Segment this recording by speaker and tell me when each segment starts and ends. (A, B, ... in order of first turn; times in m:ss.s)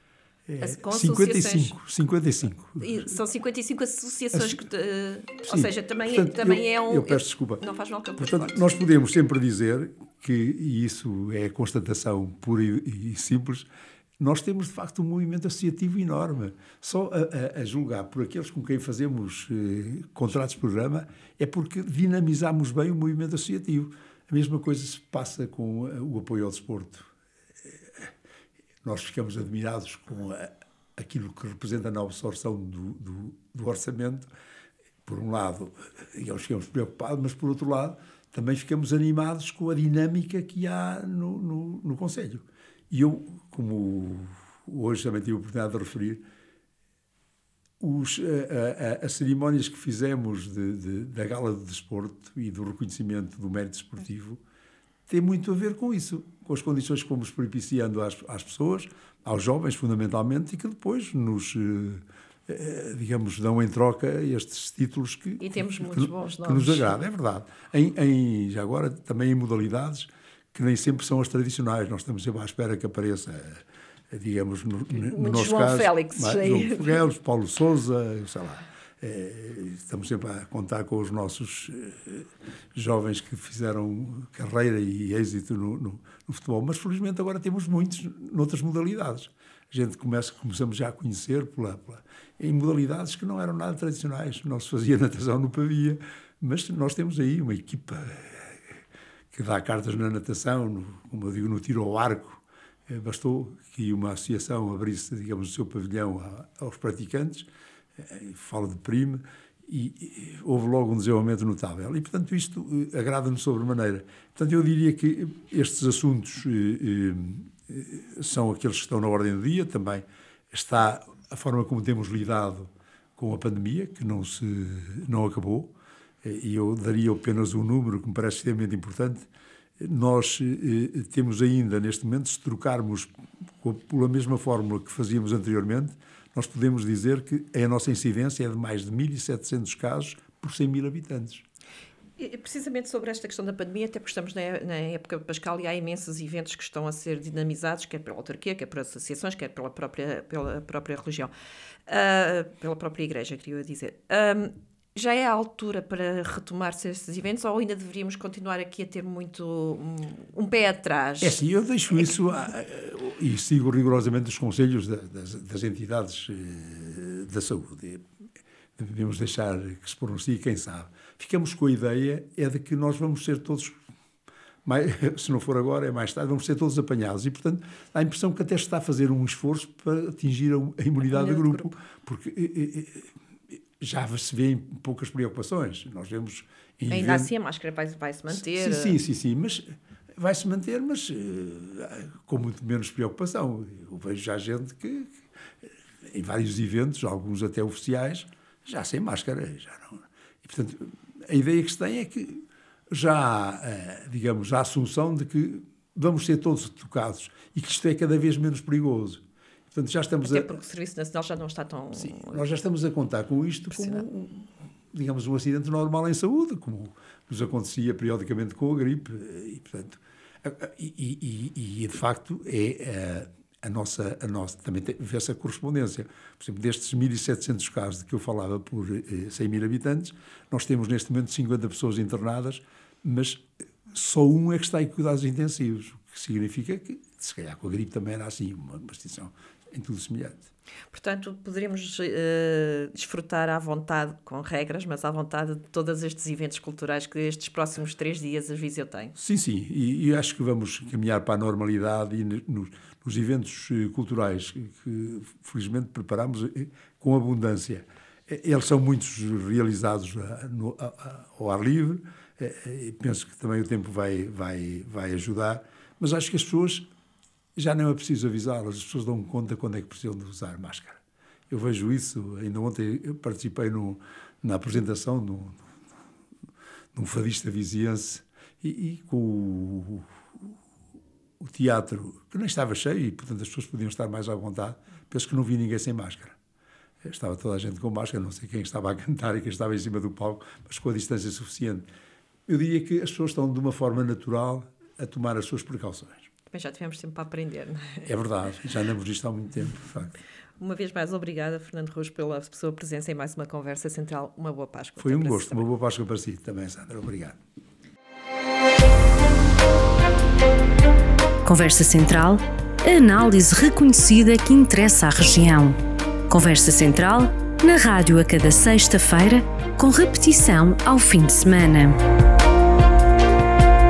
0:00.5-0:03.1 A
0:00.6-0:01.8 B
0:02.8-0:08.9 B
0:04.3-0:04.6 A
0:05.5-0:07.6 A
0:08.2-0:13.7 A
0:14.2-0:27.1 A
0:27.6-0:28.1 A
0:28.8-0:34.3 A
0:35.0-0:46.2 A
0:47.8-0:54.4 A
0:55.1-1:38.6 A
1:05.4-1:07.0 B
1:14.9-1:17.0 B
1:39.3-2:09.3 A
2:09.8-2:13.1 A
2:13.6-2:21.4 A
2:22.2-2:31.3 B
2:31.9-2:42.2 B
2:41.2-2:48.0 A
2:48.8-2:53.8 A
2:54.6-3:03.1 A
3:01.0-3:01.7 B
3:03.8-3:07.3 A
3:06.9-3:09.0 B
3:08.3-3:15.2 A
3:16.0-3:30.6 A
3:30.2-3:32.4 B
3:31.9-4:00.5 A
3:33.7-3:34.0 B
4:00.9-4:09.1 B
4:09.2-4:26.8 A
4:27.6-4:35.6 A
4:36.9-4:40.5 A
4:41.4-4:46.4 A
4:47.0-4:51.8 A
4:52.5-4:56.3 A
4:56.5-4:58.1 B
4:58.0-5:00.2 A
5:00.6-5:05.7 B
5:05.0-5:07.4 A
5:11.4-5:22.0 C